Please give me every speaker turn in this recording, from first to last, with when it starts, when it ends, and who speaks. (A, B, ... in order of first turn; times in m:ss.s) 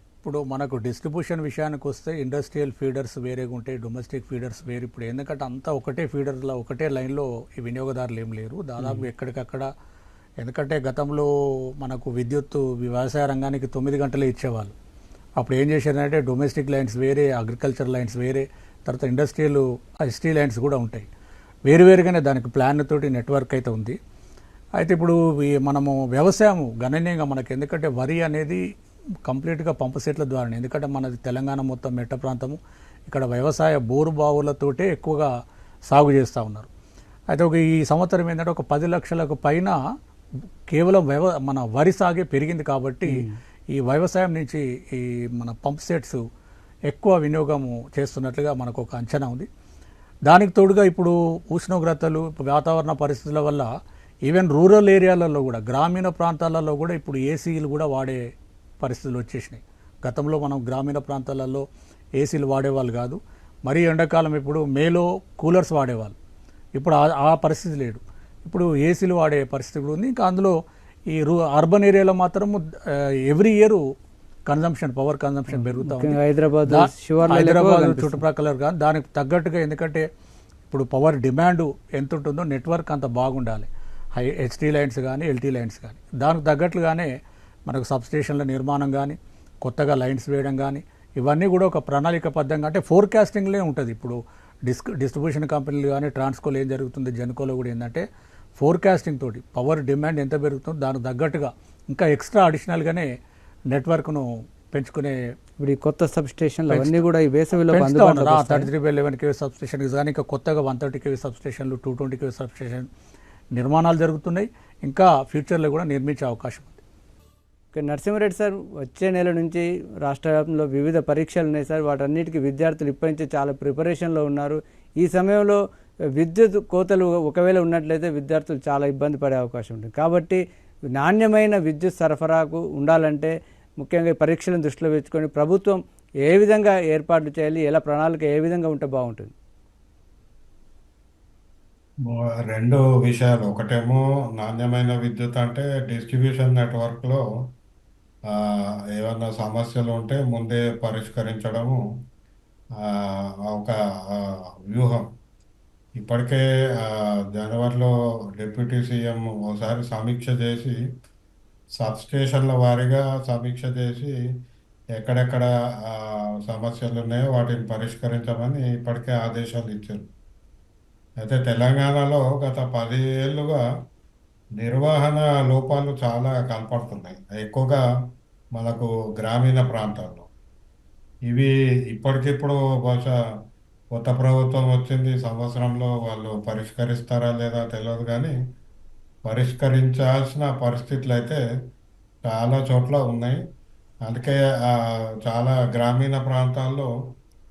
0:00.2-0:09.7 A
0:08.8-0:09.1 B
0:10.4-0:14.7 A
0:15.4-0:21.1 A
0:21.7-0:24.0 A
0:24.8-0:28.6 A
0:29.2-0:35.3 A
0:35.9-0:36.7 A
0:37.3-0:39.8 A
0:40.7-0:43.2 A
0:43.1-0:43.4 B
0:43.7-0:46.2 A
0:46.9-0:49.5 A
0:50.3-0:53.7 A
0:54.2-0:58.2 A
0:58.8-1:01.6 A
1:02.2-1:06.1 A
1:06.8-1:10.6 A
1:11.1-1:13.8 A
1:14.5-1:20.0 A
1:15.5-1:18.2 B
1:20.7-1:27.1 A
1:27.7-1:38.0 A
1:38.6-1:43.1 A
1:43.7-1:45.2 A
1:45.6-1:48.7 B
1:46.7-1:47.0 A
1:47.7-1:52.9 A
1:53.5-1:56.8 A
1:57.7-2:05.6 B
2:06.2-2:10.4 B
2:10.9-2:19.3 B
2:22.0-2:27.2 C
2:28.3-2:31.8 C
2:32.8-2:35.1 C
2:36.0-2:40.8 C
2:41.8-2:44.1 C
2:45.0-2:50.1 C
2:51.2-2:53.6 C
2:54.6-2:57.8 C
2:58.5-3:00.3 C
3:01.3-3:03.1 C
3:03.9-3:08.3 C
3:09.2-3:11.4 C
3:12.2-3:13.4 C
3:14.0-3:16.9 C